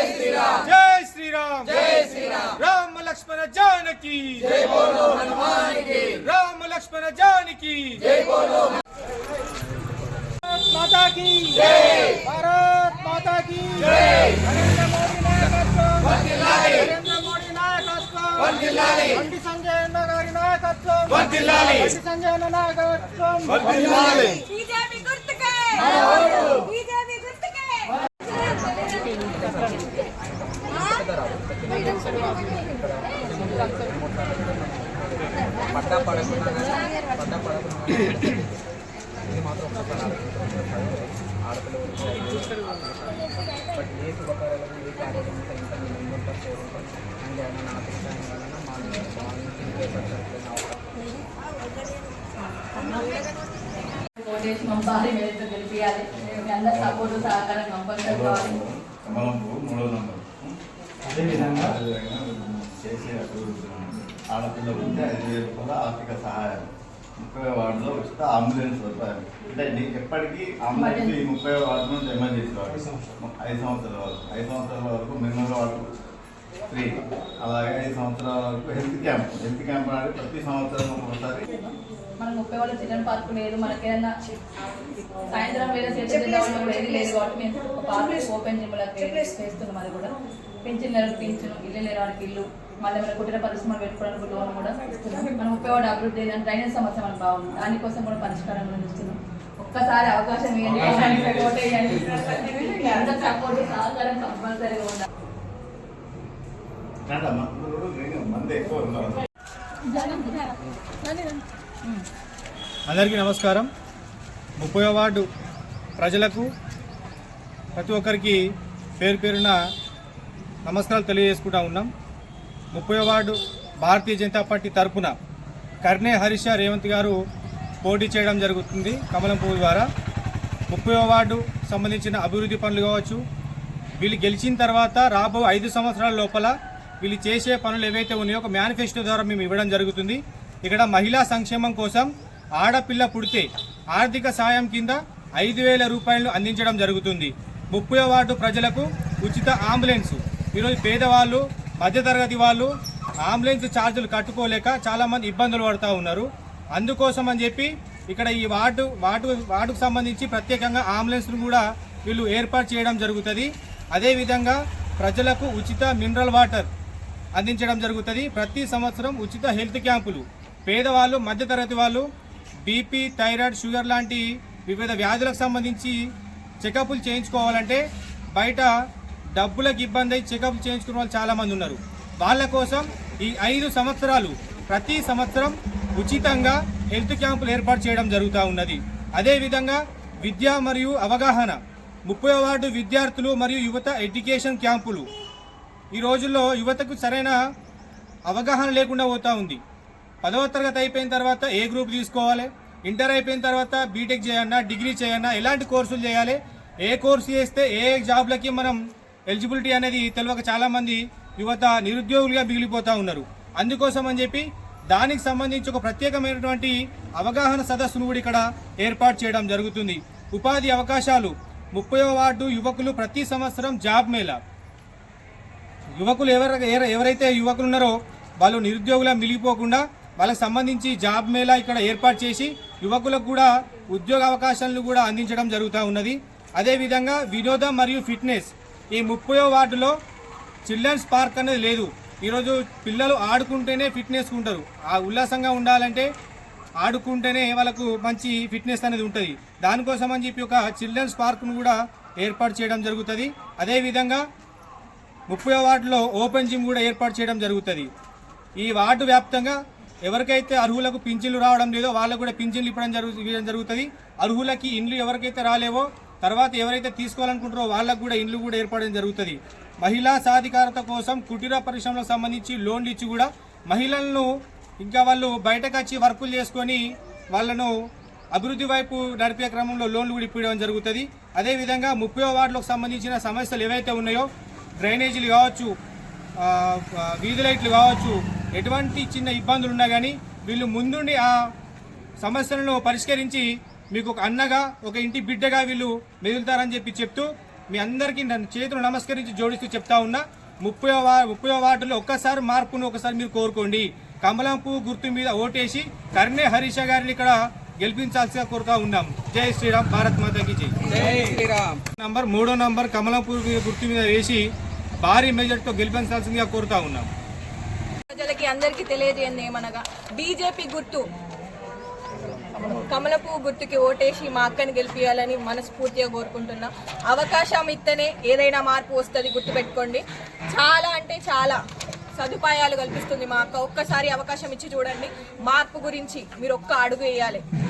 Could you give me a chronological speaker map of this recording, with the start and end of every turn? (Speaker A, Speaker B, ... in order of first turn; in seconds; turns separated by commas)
Speaker A: 0.6-8.5, Speaker A: 10.4-24.4, Speaker B: 23.7-28.8, Speaker C: 28.7-38.6, Speaker C: 39.3-51.1, Speaker D: 54.1-58.6, Speaker E: 56.6-57.4, Speaker E: 58.0-60.6, Speaker A: 61.1-61.7, Speaker E: 61.2-76.0, Speaker D: 70.7-71.2, Speaker E: 76.7-81.5, Speaker D: 81.6-84.1, Speaker D: 85.2-90.1, Speaker D: 90.6-105.1, Speaker E: 107.1-109.2, Speaker D: 109.9-110.5, Speaker A: 112.9-113.7, Speaker A: 114.6-115.3, Speaker A: 116.0-116.5, Speaker A: 117.8-118.4, Speaker A: 119.0-119.6, Speaker A: 120.6-121.9, Speaker A: 122.7-125.1, Speaker A: 125.8-127.2, Speaker A: 127.8-129.8, Speaker A: 130.7-133.2, Speaker A: 134.0-152.7, Speaker A: 153.2-166.7, Speaker A: 167.3-172.1, Speaker A: 172.6-175.9, Speaker A: 176.6-177.8, Speaker A: 178.3-178.7, Speaker A: 179.3-195.1, Speaker A: 195.9-197.4, Speaker A: 198.3-199.6, Speaker A: 200.2-224.4, Speaker A: 225.9-239.9, Speaker A: 240.7-246.1, Speaker A: 246.8-254.2, Speaker A: 255.3-257.9, Speaker A: 258.6-274.3, Speaker A: 274.8-277.7, Speaker A: 278.3-284.3, Speaker A: 284.8-285.7, Speaker A: 286.4-291.4, Speaker A: 292.2-314.4, Speaker A: 315.0-317.1, Speaker B: 318.1-321.1, Speaker B: 322.6-331.6, Speaker B: 332.2-337.4